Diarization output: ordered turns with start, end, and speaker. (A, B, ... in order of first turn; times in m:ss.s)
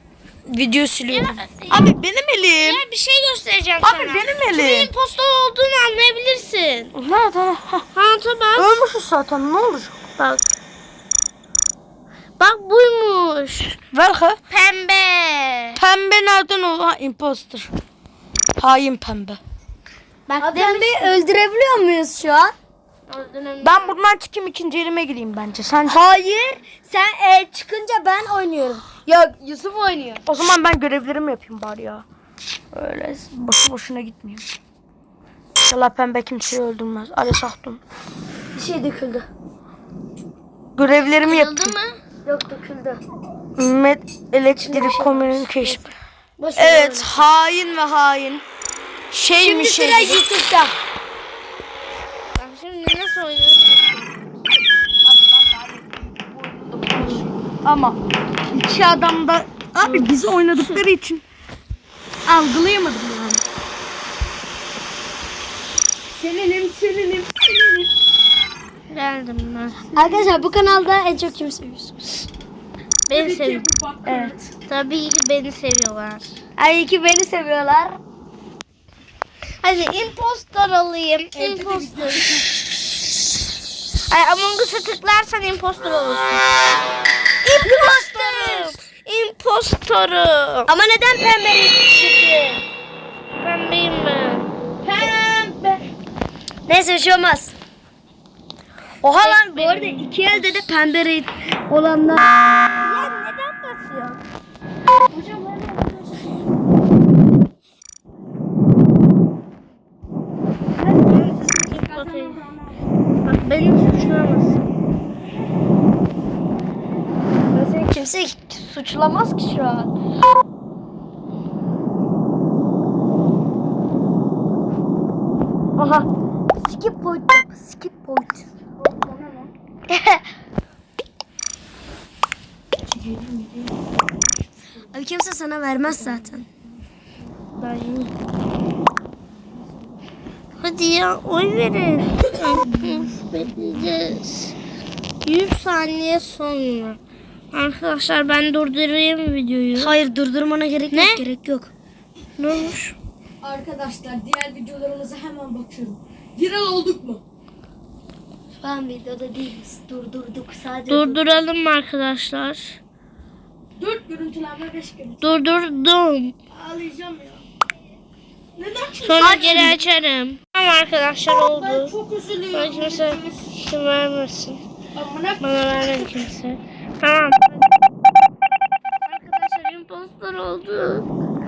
0:00.5-0:02.8 A
0:01.1-0:01.9 B
0:02.5-0:06.9 B
0:03.8-0:04.9 A
0:07.0-0:07.9 A
0:07.9-0:08.8 B
0:08.6-0:10.0 A
0:10.2-0:10.5 B
0:12.4-0:13.8 B
0:13.9-0:14.4 A
0:14.5-0:15.8 B
0:15.8-0:17.7 A
0:18.6-0:19.4 A
0:20.3-0:21.2 B
0:20.4-0:22.5 C
0:23.1-0:24.0 B
0:23.6-0:26.0 A
0:25.9-0:30.2 C
0:30.3-0:32.0 A
0:32.7-0:34.5 A
0:35.7-0:37.8 A
0:38.5-0:39.3 C
0:40.8-0:41.8 A
0:41.2-0:42.0 B
0:42.3-0:43.0 C
0:43.6-0:45.9 A
0:44.6-0:45.8 C
0:46.4-0:47.2 C
0:46.6-0:48.4 A
0:49.1-0:50.2 A
0:49.4-0:50.7 C
0:52.4-0:54.3 B
0:55.0-1:01.2 A
0:59.8-1:00.8 B
1:02.3-1:03.4 A
1:06.2-1:07.9 C
1:08.9-1:09.9 B
1:09.9-1:12.3 C
1:10.0-1:10.4 A
1:13.1-1:13.7 B
1:13.1-1:14.5 A
1:14.0-1:14.4 C
1:14.6-1:16.4 B
1:16.6-1:18.0 C
1:19.6-1:22.4 B
1:21.3-1:22.5 A
1:24.1-1:26.4 B
1:27.5-1:28.8 C
1:27.7-1:30.7 B
1:30.7-1:32.6 C
1:33.4-1:34.5 B
1:34.8-1:35.8 A
1:36.7-1:37.5 C
1:39.0-1:42.3 C
1:39.2-1:40.7 B
1:42.8-1:44.2 B
1:45.1-1:46.5 A
1:50.8-1:52.8 A
1:51.1-1:52.4 B
1:53.2-1:54.6 B
1:57.5-1:59.9 C
2:05.8-2:08.5 C
2:08.8-2:09.5 A
2:09.9-2:10.2 C
2:12.9-2:13.8 A
2:14.9-2:16.4 C
2:15.9-2:16.4 A
2:17.6-2:18.1 B
2:20.6-2:24.5 B
2:22.3-2:23.9 A
2:25.2-2:27.0 B
2:27.5-2:29.9 B
2:29.8-2:31.7 C
2:30.9-2:31.2 B
2:32.4-2:33.0 B
2:33.4-2:37.2 A
2:38.6-2:41.4 C
2:40.9-2:42.8 B
2:43.8-2:45.4 A
2:45.2-2:46.4 B
2:46.5-2:47.4 A
2:48.6-2:49.9 A
2:49.0-2:51.9 B
2:51.3-2:53.6 A
2:52.5-2:54.6 B
2:55.0-2:56.1 A
2:55.4-2:57.6 B
2:59.0-3:01.1 B